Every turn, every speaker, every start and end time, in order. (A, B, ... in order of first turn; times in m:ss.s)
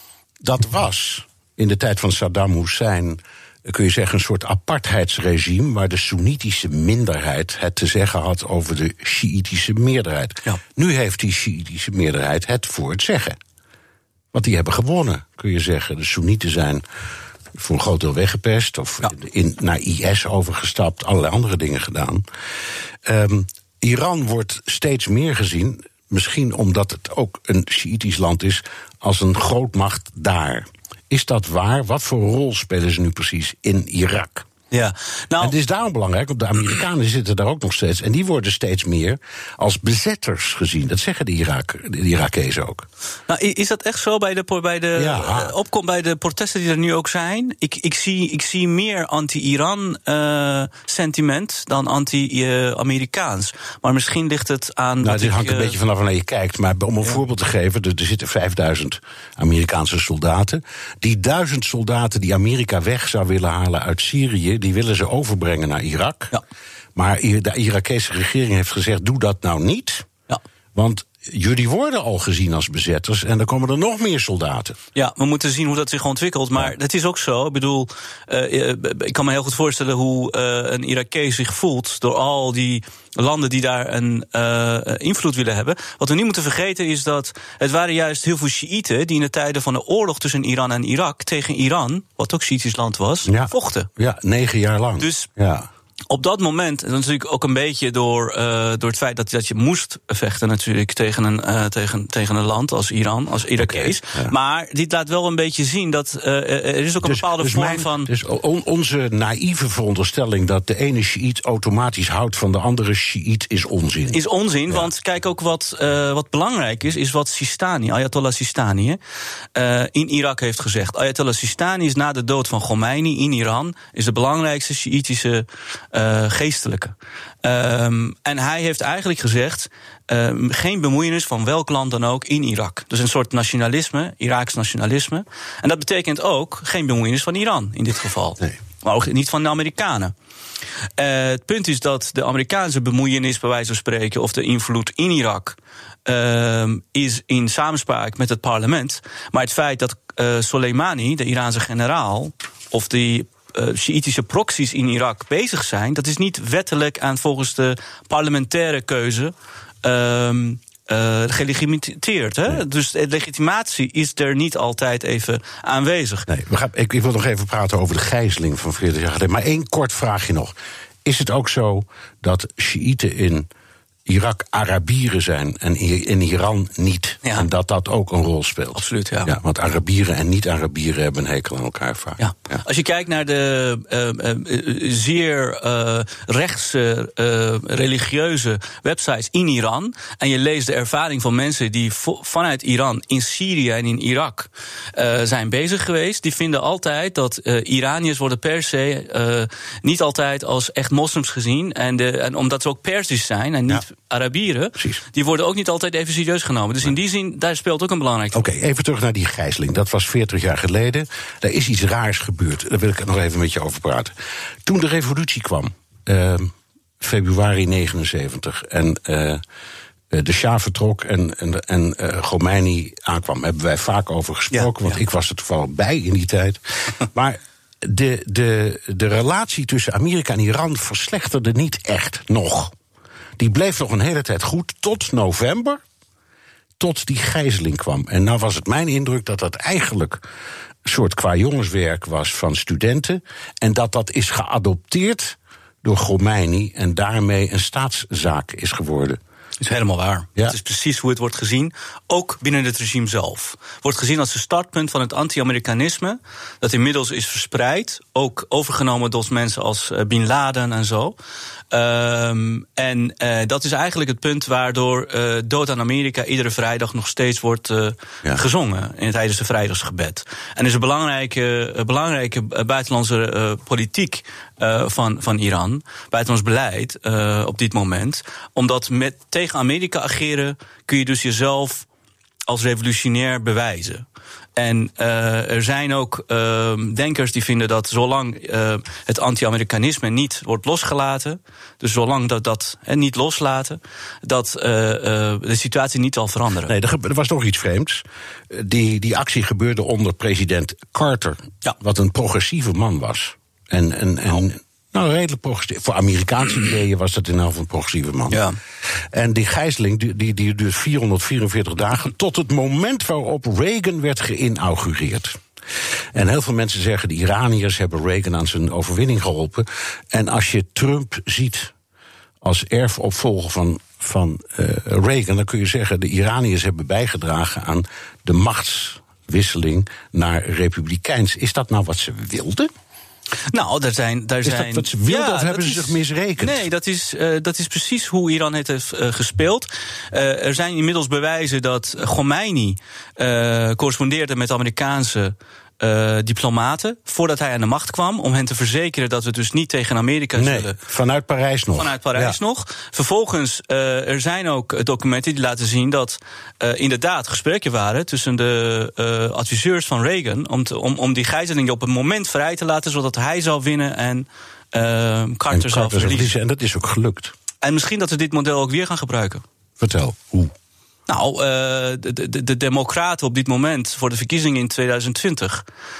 0:00.4-0:13.4 A
0:14.3-0:16.8 A
0:17.5-0:22.2 A
0:23.0-0:34.5 A
0:34.7-0:35.5 B
0:35.4-0:42.9 A
0:43.3-0:55.7 B
0:45.0-0:45.5 A
0:55.0-1:06.3 A
1:06.9-1:10.1 A
1:10.7-1:14.8 A
1:14.9-1:33.9 B
1:33.2-1:35.7 A
1:35.0-1:35.3 B
1:36.1-1:48.1 B
1:43.6-1:44.3 A
1:47.0-1:54.9 A
1:54.1-1:59.0 B
1:59.5-2:20.1 B
2:21.0-2:46.3 B
2:46.3-2:53.5 A
2:54.0-3:02.6 A
2:58.7-2:59.3 B
3:02.2-3:28.5 B
3:24.8-3:25.0 A
3:28.3-3:34.1 A
3:34.6-3:39.4 A
3:40.1-3:52.7 A
3:44.5-3:44.9 B
3:53.4-3:55.8 A
3:56.8-4:00.2 A
4:00.8-4:09.2 A
4:09.6-4:21.2 B
4:21.7-4:41.8 B
4:42.5-4:44.0 B
4:44.6-4:56.7 B
4:56.6-5:08.4 A
5:08.3-5:08.6 B
5:09.1-5:15.4 A
5:16.1-5:21.7 A
5:22.4-5:32.7 A
5:33.5-5:50.7 B
5:34.4-5:36.6 A
5:50.4-5:52.4 A
5:51.8-6:06.3 B
6:05.5-6:07.3 A
6:07.6-6:09.4 B
6:09.8-6:10.5 A
6:11.1-6:15.6 B